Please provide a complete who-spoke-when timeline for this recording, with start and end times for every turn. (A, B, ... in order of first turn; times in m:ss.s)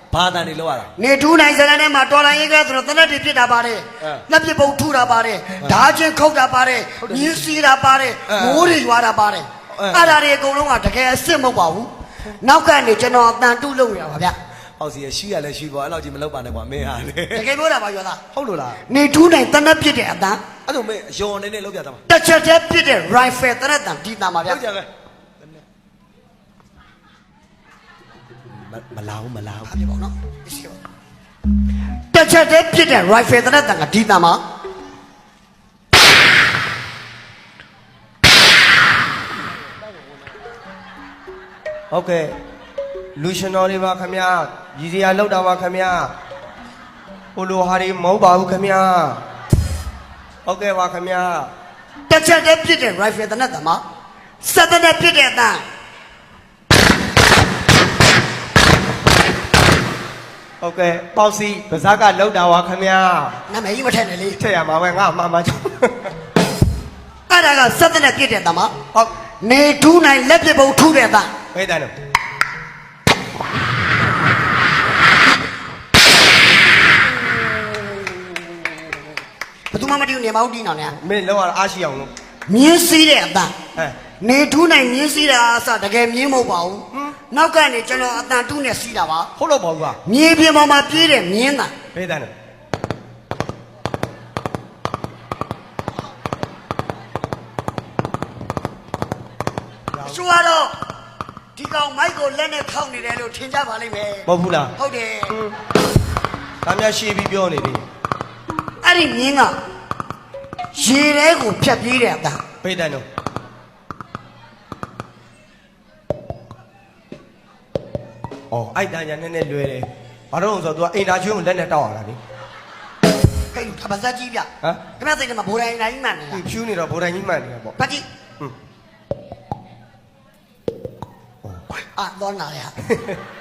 0:00.1-0:00.9 A
0:01.0-0:14.4 B
0:07.0-0:07.4 A
0:08.3-0:08.7 A
0:09.7-0:10.2 A
0:14.8-0:17.4 A
0:17.3-0:18.2 B
0:18.3-0:18.8 A
0:18.9-0:20.4 B
0:20.6-0:22.0 A
0:22.1-0:24.6 B
0:24.4-0:24.9 A
0:28.5-0:29.7 A
0:29.6-0:30.8 B
0:32.1-0:34.4 B
0:41.9-0:42.3 C
0:43.2-0:46.1 C
0:47.3-0:49.2 C
0:50.4-0:51.5 C
0:52.1-0:53.8 B
0:54.4-0:55.6 B
1:00.6-1:03.4 C
1:03.5-1:04.4 B
1:04.4-1:06.1 C
1:07.3-1:08.7 B
1:09.4-1:11.3 B
1:11.5-1:11.9 C
1:19.7-1:21.0 B
1:21.0-1:22.1 C
1:22.5-1:23.6 B
1:24.2-1:29.3 B
1:29.4-1:30.0 C
1:30.0-1:31.7 B
1:31.9-1:32.3 C
1:39.9-1:40.2 C
1:40.0-1:40.7 B
1:41.6-1:45.4 B
1:44.3-1:44.7 C
1:46.6-1:47.8 C
1:48.8-1:49.6 B
1:50.7-1:52.4 B
1:52.6-1:53.0 C
1:58.5-2:02.2 C
2:03.5-2:06.4 B
2:06.3-2:07.8 C
2:07.8-2:08.0 B
2:11.9-2:12.8 B
2:12.9-2:13.2 C